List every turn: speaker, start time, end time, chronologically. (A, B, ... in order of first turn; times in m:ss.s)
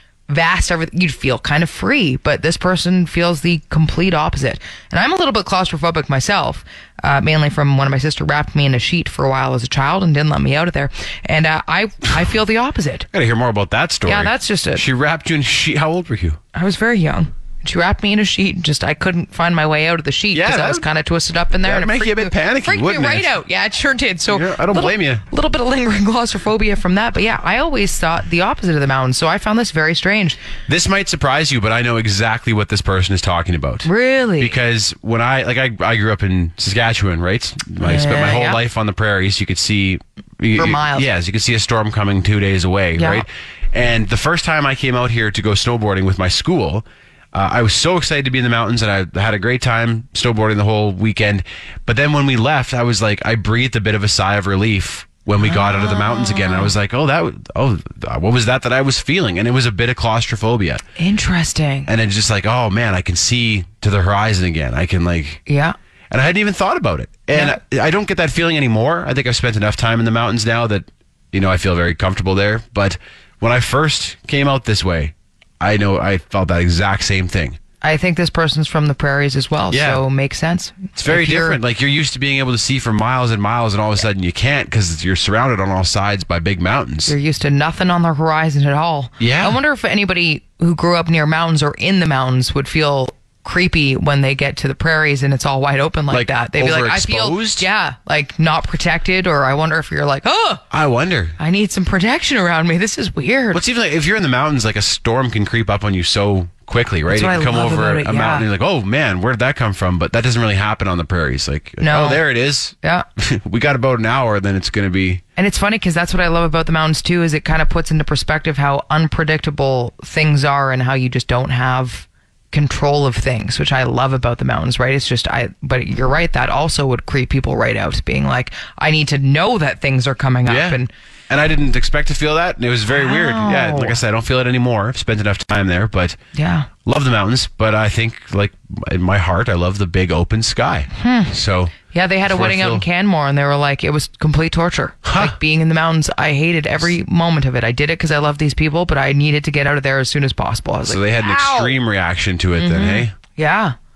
0:00.3-0:13.1 A
0:13.1-0:16.4 B
0:14.1-0:14.8 A
0:16.5-0:30.4 A
0:20.3-0:20.9 B
0:21.6-0:23.3 B
0:24.3-0:25.2 B
0:30.7-1:00.8 B
0:33.8-0:34.6 A
0:37.8-0:38.6 A
0:40.6-0:41.1 A
0:43.0-0:43.3 A
0:55.4-0:56.7 A
1:01.0-1:01.9 A
1:01.9-1:05.4 B
1:05.5-1:05.8 A
1:06.1-1:17.6 B
1:07.3-1:07.6 A
1:17.8-1:21.6 A
1:19.7-1:20.0 B
1:21.0-1:27.2 B
1:27.1-1:40.6 A
1:29.2-1:29.6 B
1:36.1-1:37.6 B
1:40.7-1:41.4 B
1:41.4-1:43.6 A
1:43.5-1:55.2 B
1:47.1-1:48.5 A
1:51.8-1:52.3 A
1:55.4-2:10.9 A
2:10.4-2:16.2 B
2:12.9-2:14.0 A
2:16.4-2:16.7 A
2:16.8-2:22.8 B
2:20.9-2:21.4 A
2:21.9-2:31.8 A
2:25.0-2:25.4 B
2:30.9-2:33.1 B
2:32.6-2:33.8 A